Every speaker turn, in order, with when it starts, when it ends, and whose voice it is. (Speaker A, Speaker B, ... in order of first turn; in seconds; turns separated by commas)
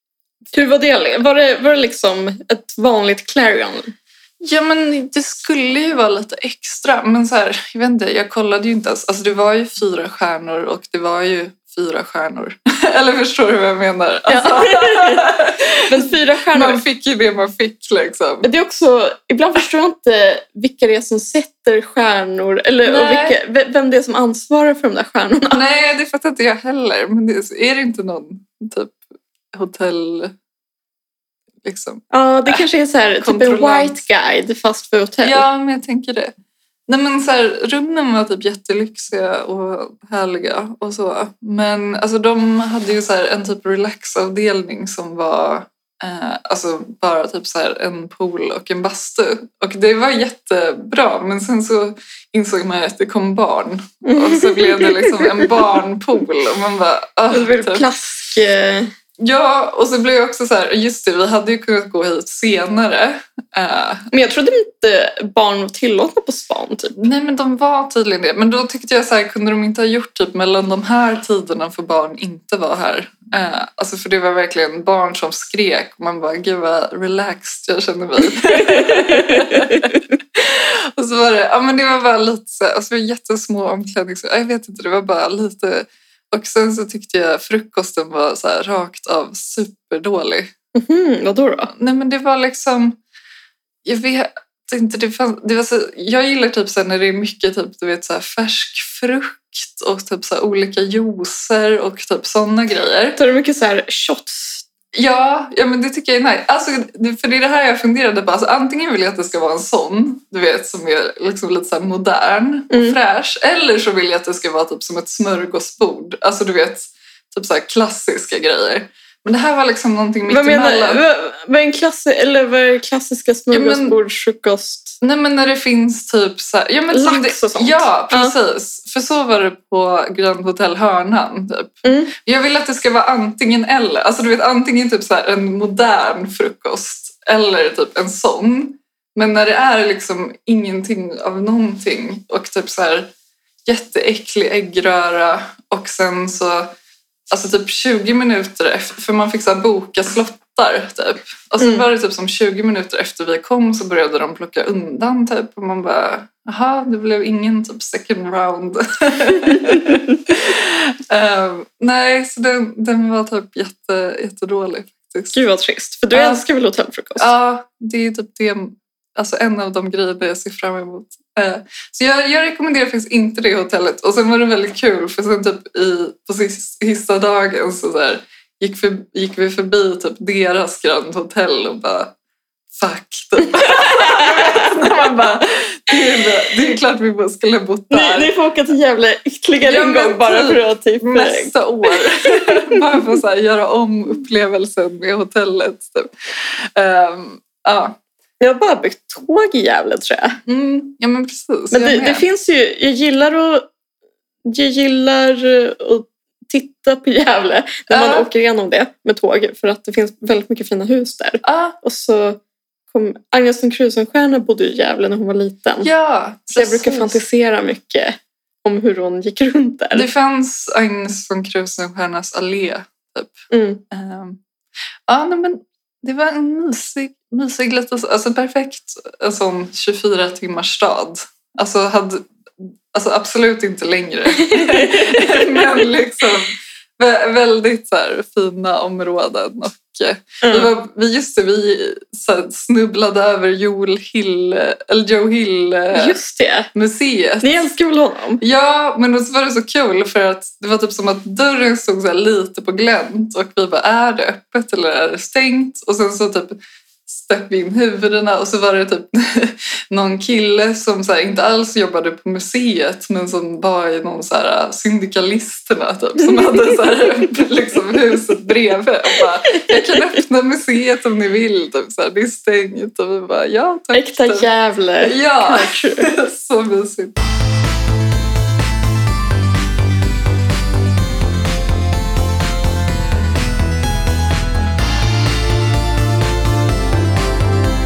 Speaker A: 0.5-3.9, Speaker B: 4.4-18.5, Speaker A: 14.3-16.8, Speaker A: 18.4-25.6, Speaker B: 22.9-23.4, Speaker B: 25.5-29.0, Speaker B: 29.5-30.3, Speaker B: 31.6-32.6, Speaker A: 32.1-35.5, Speaker B: 33.2-34.0, Speaker B: 35.2-36.3, Speaker B: 36.9-57.9, Speaker A: 54.0-55.5, Speaker A: 57.3-58.9, Speaker B: 59.2-64.1, Speaker A: 64.1-67.0, Speaker B: 67.0-90.5, Speaker A: 78.7-79.8, Speaker A: 90.8-91.7, Speaker B: 91.7-93.0, Speaker B: 93.8-103.2, Speaker A: 103.2-104.7, Speaker B: 104.9-121.0, Speaker A: 112.7-113.0, Speaker A: 120.3-125.0, Speaker B: 123.5-124.0, Speaker B: 125.0-143.1, Speaker A: 126.9-128.3, Speaker A: 131.8-132.1, Speaker B: 143.7-146.7, Speaker B: 147.3-165.4, Speaker A: 151.6-151.8, Speaker A: 165.3-167.3, Speaker B: 166.1-166.4, Speaker B: 167.2-182.2, Speaker B: 182.7-188.3, Speaker A: 183.6-185.0, Speaker A: 187.9-193.0, Speaker B: 189.6-198.0, Speaker A: 198.4-200.4, Speaker B: 200.5-202.3, Speaker A: 201.7-203.7, Speaker A: 204.5-212.4, Speaker B: 207.9-208.3, Speaker B: 211.4-211.8, Speaker A: 212.9-215.9, Speaker B: 215.8-217.2, Speaker A: 216.5-220.1, Speaker B: 219.9-224.4, Speaker A: 223.5-223.8, Speaker B: 225.1-246.2, Speaker A: 234.4-235.7, Speaker A: 240.4-240.7, Speaker A: 245.9-246.7, Speaker B: 246.7-247.7, Speaker A: 247.4-248.4, Speaker B: 248.4-274.5, Speaker A: 266.3-267.0, Speaker A: 269.5-270.0, Speaker A: 273.9-276.1, Speaker B: 275.0-277.2